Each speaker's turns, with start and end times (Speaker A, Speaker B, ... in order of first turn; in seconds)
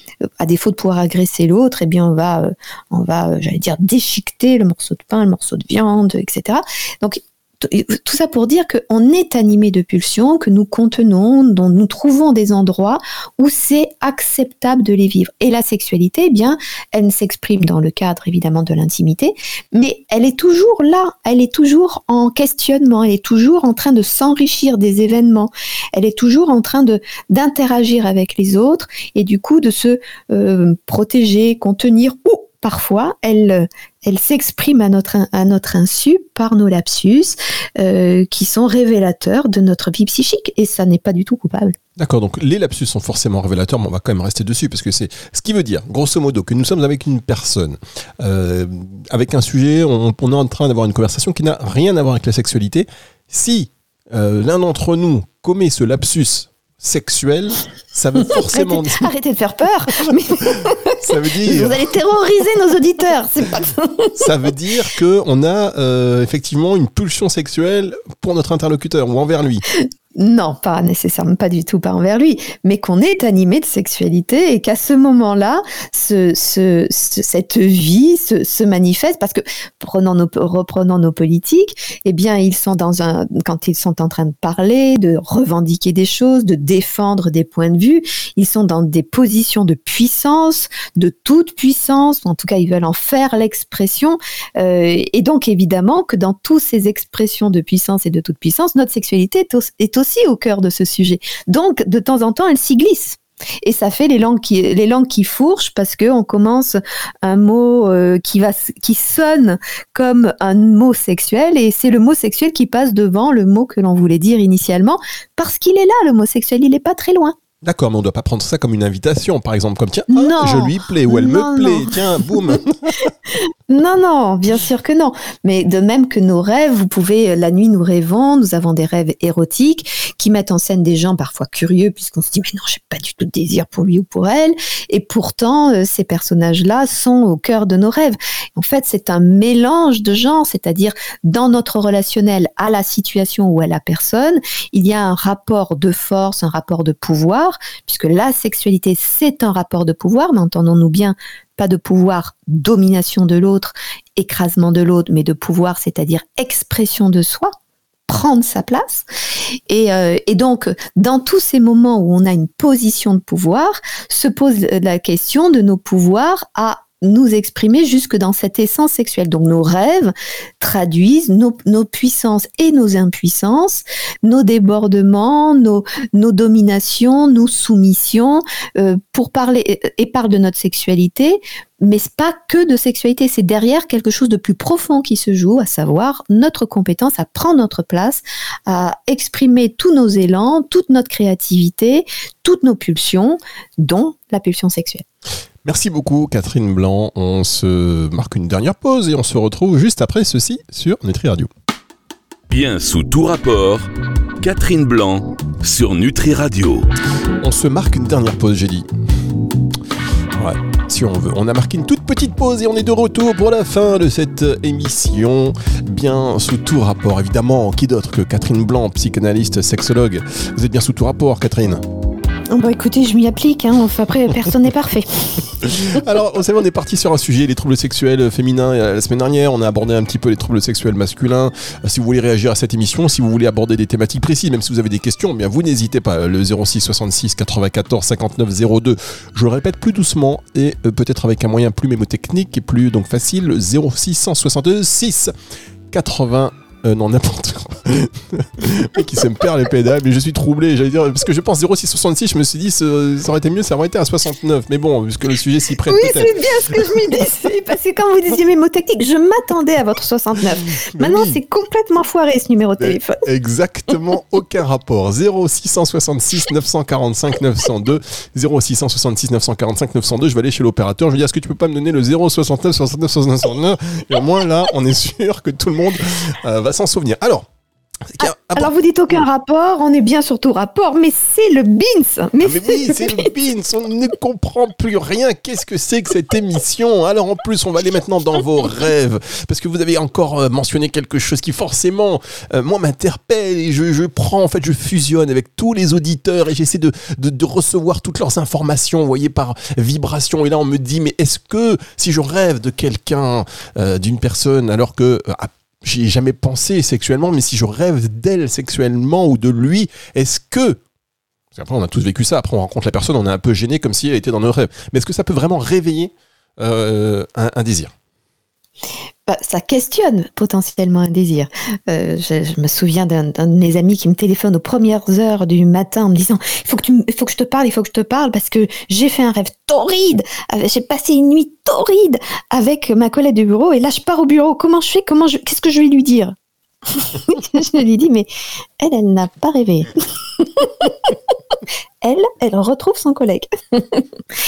Speaker A: 0.4-41.8, 58.5-64.2, 69.8-117.3, 120.1-122.4, 123.7-157.5, 158.1-159.0, 159.7-195.0, 222.5-225.5, 255.8-263.2, 278.2-283.3, 319.2-336.3, 336.9-338.3, 338.8-341.1, 342.0-344.0
Speaker B: 42.0-59.1, 61.0-61.8, 64.2-69.6, 117.6-123.1, 195.6-201.5, 207.4-208.9, 210.3-221.8, 225.6-245.3, 245.9-257.0, 260.9-261.4, 262.8-277.5, 278.1-279.2, 282.4-310.8, 311.5-317.9
Speaker C: 202.5-203.9, 204.4-206.9